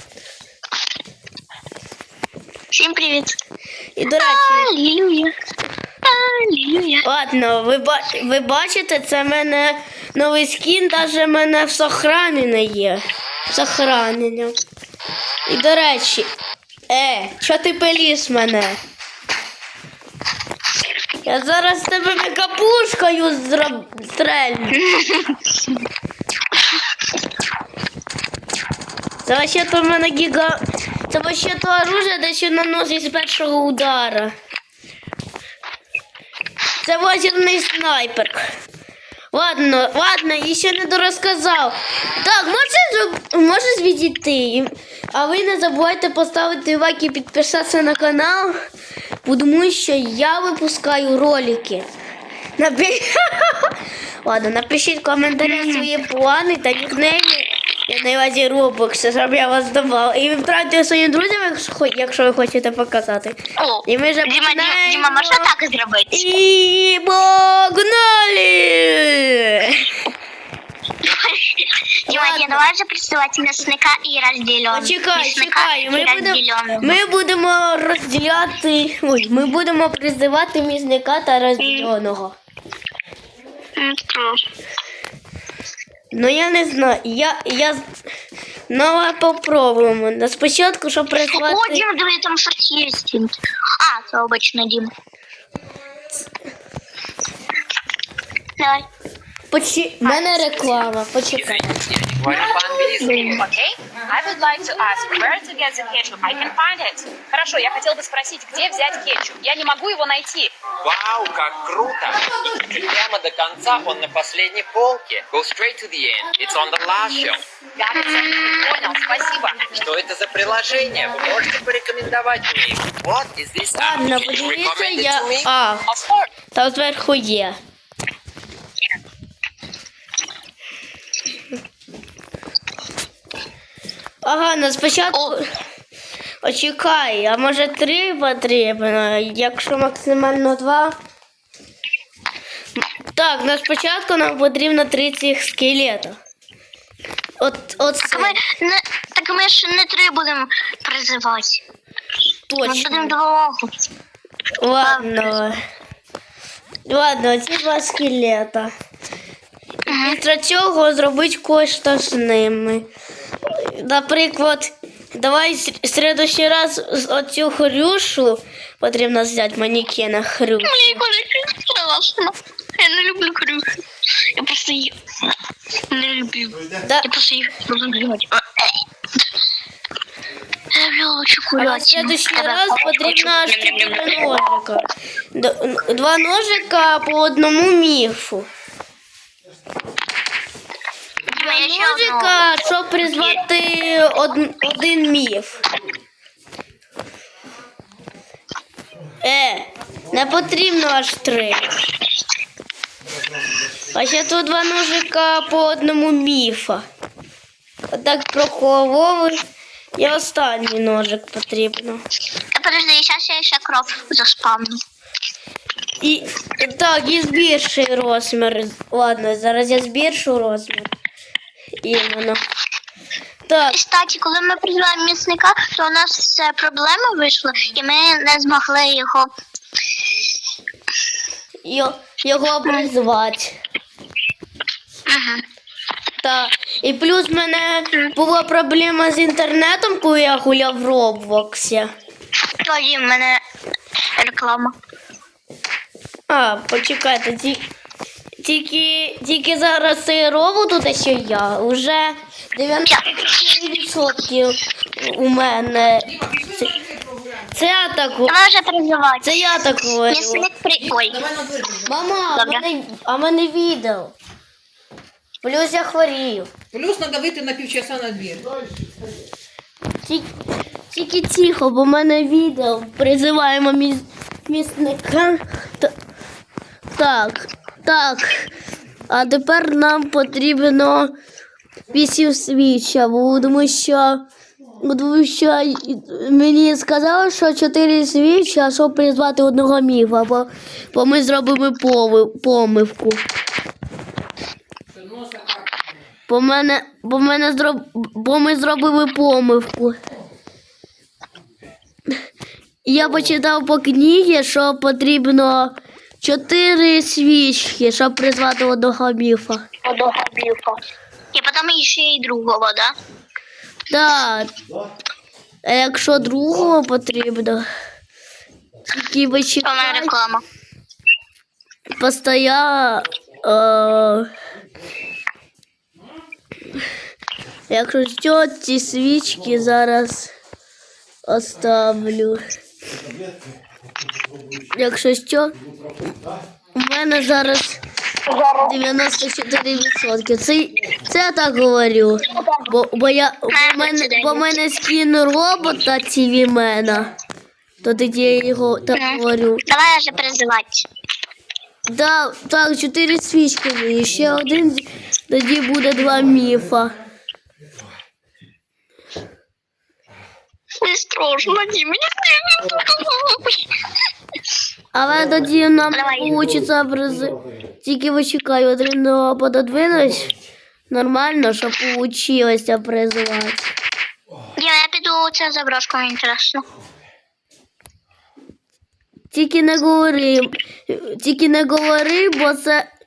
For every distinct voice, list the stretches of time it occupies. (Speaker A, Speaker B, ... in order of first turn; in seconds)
Speaker A: 2.7-3.4, 4.2-5.3, 6.0-7.0, 24.8-25.5, 55.4-55.9, 63.6-66.4, 71.1-77.0, 81.6-81.9, 83.8-84.4, 91.1-94.9, 98.6-98.9, 100.0-100.9, 103.0-103.4, 118.0-118.7, 148.1-151.6, 152.6-153.7, 154.8-155.3, 159.9-160.2, 170.6-173.6, 174.2-174.9, 175.9-178.7, 180.7-184.3, 191.4-193.4, 212.5-214.8, 223.7-229.3, 235.1-235.4, 242.7-243.4, 244.2-244.7, 258.3-261.2, 262.3-262.6, 309.8-310.8, 311.3-312.9, 319.6-320.4, 338.3-338.8, 343.5-344.6, 348.9-350.9, 360.8-363.6, 365.9-366.4, 374.6-376.6
Speaker B: 4.0-4.7, 7.0-14.6, 15.5-16.3, 16.9-18.8, 21.2-24.8, 29.2-34.3, 36.8-38.4, 39.3-48.6, 49.2-51.9, 52.6-53.7, 54.2-65.5, 66.1-69.9, 72.1-72.6, 74.7-82.4, 86.1-87.9, 88.7-91.8, 99.5-101.8, 123.8-125.9, 126.5-127.6, 134.2-135.5, 136.4-141.0, 143.1-146.2, 147.4-148.4, 152.5-153.1, 154.6-155.6, 156.9-158.7, 159.9-162.9, 163.5-171.0, 181.6-188.5, 191.3-195.6, 199.2-201.8, 203.9-206.9, 207.9-209.4, 210.0-212.0, 216.0-220.9, 221.8-222.4, 223.5-223.8, 231.7-233.6, 236.2-241.9, 246.3-247.6, 248.4-256.8, 257.5-258.4, 259.2-260.5, 261.9-264.1, 265.4-266.5, 270.9-275.9, 276.9-278.5, 279.1-281.1, 281.9-284.2, 284.8-293.2, 296.3-300.0, 302.9-309.6, 313.9-314.5, 315.6-317.6, 318.9-320.1, 322.0-324.3, 327.7-330.3, 331.3-332.4, 334.7-335.6, 336.8-337.8, 338.6-347.1, 347.8-349.6, 351.9-356.9, 364.9-370.3, 370.9-373.7, 379.3-382.9
Speaker C: 101.3-103.4, 110.8-117.5, 119.8-126.3
Speaker D: 103.1-110.5, 117.8-119.8
Speaker E: 256.1-257.4, 260.8-262.1, 266.7-268.5, 294.9-295.8